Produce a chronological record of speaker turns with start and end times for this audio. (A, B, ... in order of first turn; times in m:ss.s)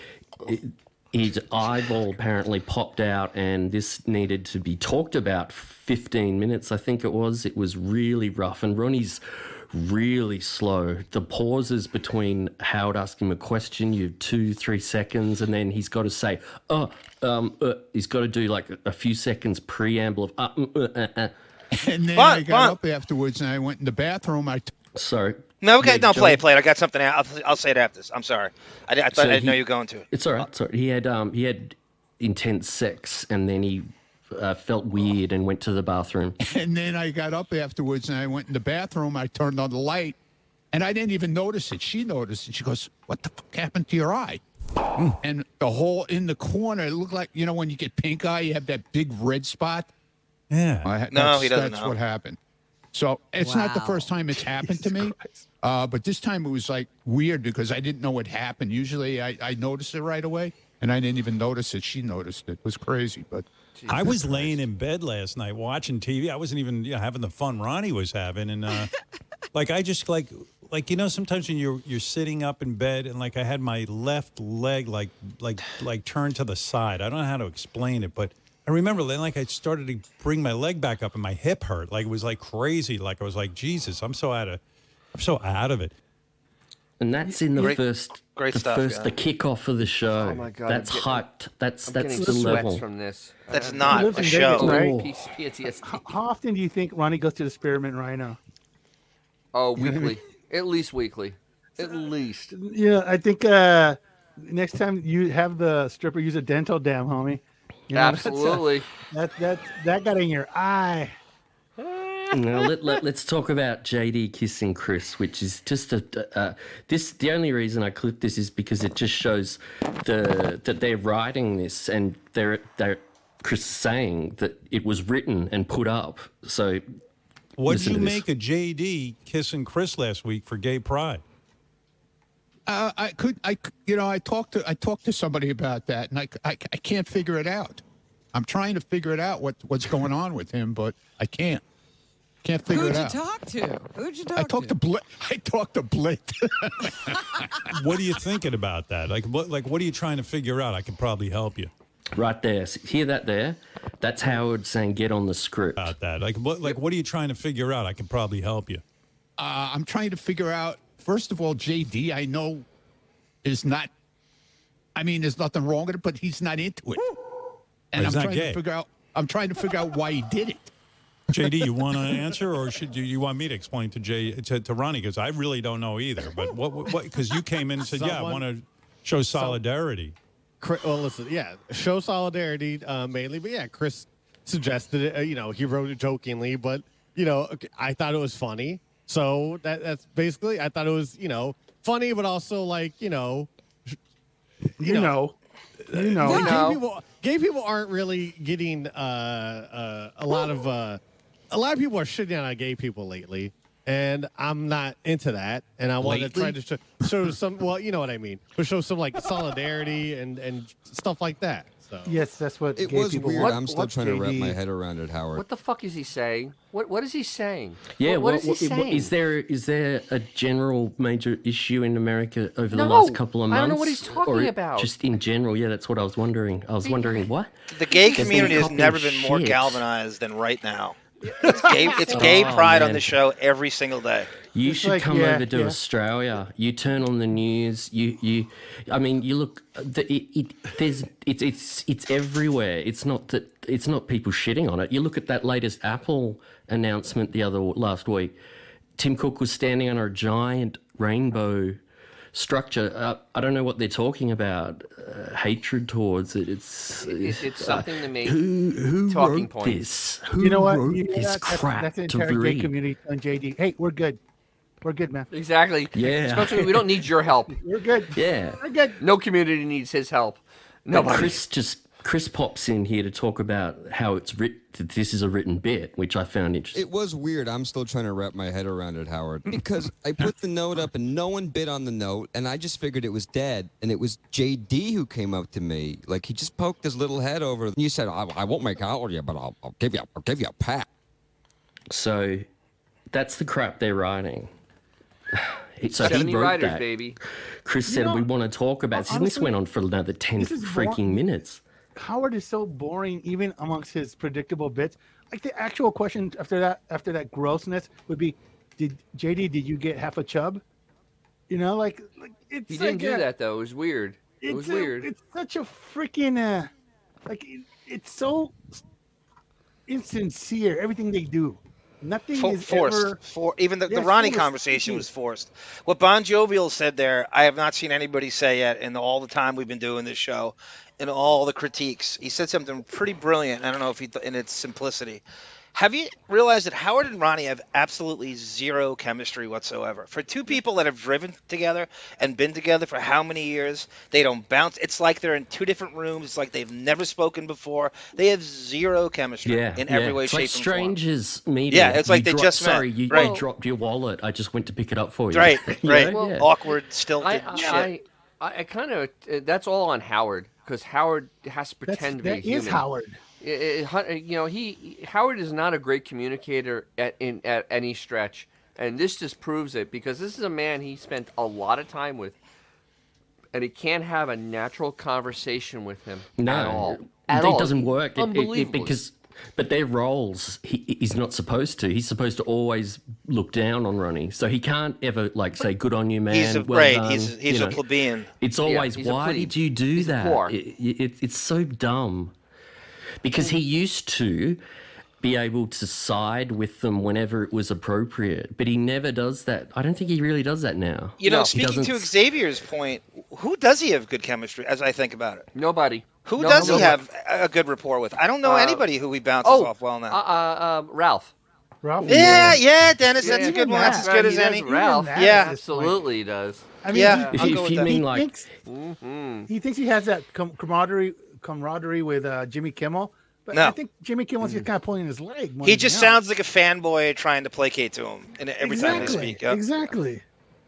0:00.4-0:21.3 A
0:21.7-0:24.7 B
0:22.1-0:22.8 C
0:24.9-0:26.4 A
0:25.6-0:30.4 C
0:29.1-0:29.6 A
0:30.1-0:36.4 A
0:36.4-0:40.2 B
0:40.7-0:44.4 B
0:45.2-0:49.9 B
0:50.5-0:50.9 D
0:50.8-0:52.4 B
0:51.1-0:52.0 C
0:52.9-1:03.4 B
0:53.4-0:54.1 E
0:54.8-0:55.4 F
1:03.7-1:04.6 G
1:03.9-1:08.9 D
1:09.5-1:24.6 D
1:25.1-1:25.9 D
1:27.0-1:32.8 A
1:27.2-1:27.7 F
1:27.6-1:29.1 C
1:30.2-1:31.2 G
1:31.8-1:36.0 G
1:32.2-1:32.7 F
1:33.5-1:34.8 C
1:33.8-1:34.9 F
1:34.6-1:35.1 A
1:35.8-1:38.4 F
1:39.5-1:42.5 G
1:39.8-1:40.1 F
1:42.5-1:51.1 F
1:47.9-1:48.9 G
1:51.8-1:52.3 G
1:52.3-2:06.8 A
2:07.6-2:11.2 D
2:07.7-2:08.2 A
2:12.7-2:17.8 B
2:18.3-2:21.6 B
2:22.4-2:23.2 B
2:22.7-2:24.7 E
2:24.3-2:27.5 B
2:27.7-2:31.7 D
2:32.1-2:35.9 A
2:35.8-2:38.8 D
2:39.4-2:42.6 B
2:43.4-2:43.9 B
2:45.0-2:47.1 B
2:47.9-2:50.7 B
2:47.9-2:48.6 D
2:51.3-3:00.1 D
2:57.8-2:58.4 H
2:59.3-2:59.6 H
3:00.6-3:13.5 H
3:14.8-3:15.4 F
3:14.8-3:15.1 H
3:15.9-3:16.5 F
3:15.9-3:32.2 H
3:16.2-3:16.8 G
3:26.1-3:26.5 B
3:32.0-3:34.6 F
3:32.8-3:35.4 I
3:35.3-3:39.1 G
3:38.0-3:47.5 A
3:42.7-3:44.9 G
3:46.8-3:47.3 G
3:47.7-3:54.3 C
3:48.1-3:48.4 G
3:48.1-3:49.8 A
3:51.3-3:52.1 F
3:51.5-3:52.4 G
3:52.1-3:53.1 A
3:54.5-4:08.4 A
3:54.6-3:55.8 F
4:09.0-4:11.8 A
4:12.3-4:22.7 A
4:17.0-4:18.4 G
4:19.1-4:19.8 G
4:20.4-4:24.2 F
4:24.8-4:25.3 F
4:25.3-4:27.5 G
4:25.9-4:26.9 A
4:27.5-4:29.0 F
4:28.1-4:28.6 A
4:29.0-4:31.4 G
4:30.9-4:36.8 A
4:36.7-4:50.9 I
4:51.9-4:52.4 A
4:53.1-4:54.5 A
4:55.3-4:56.8 A
4:56.0-4:57.2 G
4:57.6-5:01.6 A
4:57.8-4:58.3 F
4:58.9-4:59.5 F
5:00.4-5:01.2 F
5:01.9-5:10.6 F
5:11.5-5:13.3 F
5:12.7-5:15.1 G
5:14.4-5:16.7 F
5:17.3-5:18.8 F
5:19.9-5:23.2 F
5:22.3-5:35.2 C
5:23.9-5:25.1 F
5:35.7-5:51.0 C
5:49.4-5:56.5 A
5:51.7-5:53.3 C
5:53.1-5:53.4 G
5:55.3-5:57.9 C
5:56.1-5:56.4 G
5:57.2-6:02.8 G
5:57.6-5:57.8 F
6:01.9-6:03.2 F
6:03.4-6:12.4 G
6:13.5-6:19.0 G
6:16.4-6:27.8 A
6:26.3-6:28.3 C
6:28.4-6:32.3 A
6:28.6-6:30.5 G
6:33.2-6:34.6 A
6:35.2-6:42.1 A
6:41.2-6:45.5 C
6:41.2-6:41.5 G
6:45.5-6:47.0 G
6:46.2-6:50.2 C
6:46.4-6:47.0 F
6:48.4-6:48.8 G
6:49.4-6:51.3 G
6:51.8-6:52.6 F
6:52.0-6:52.6 A
6:52.1-6:55.5 C
6:53.2-6:56.0 F
6:53.2-6:57.3 G
6:56.8-6:58.5 F
6:56.9-6:57.9 C
6:57.3-6:58.3 A
6:58.6-6:59.5 G
6:59.5-7:06.2 F
7:04.4-7:04.7 G
7:05.6-7:09.6 C
7:08.6-7:10.2 F
7:08.8-7:09.2 G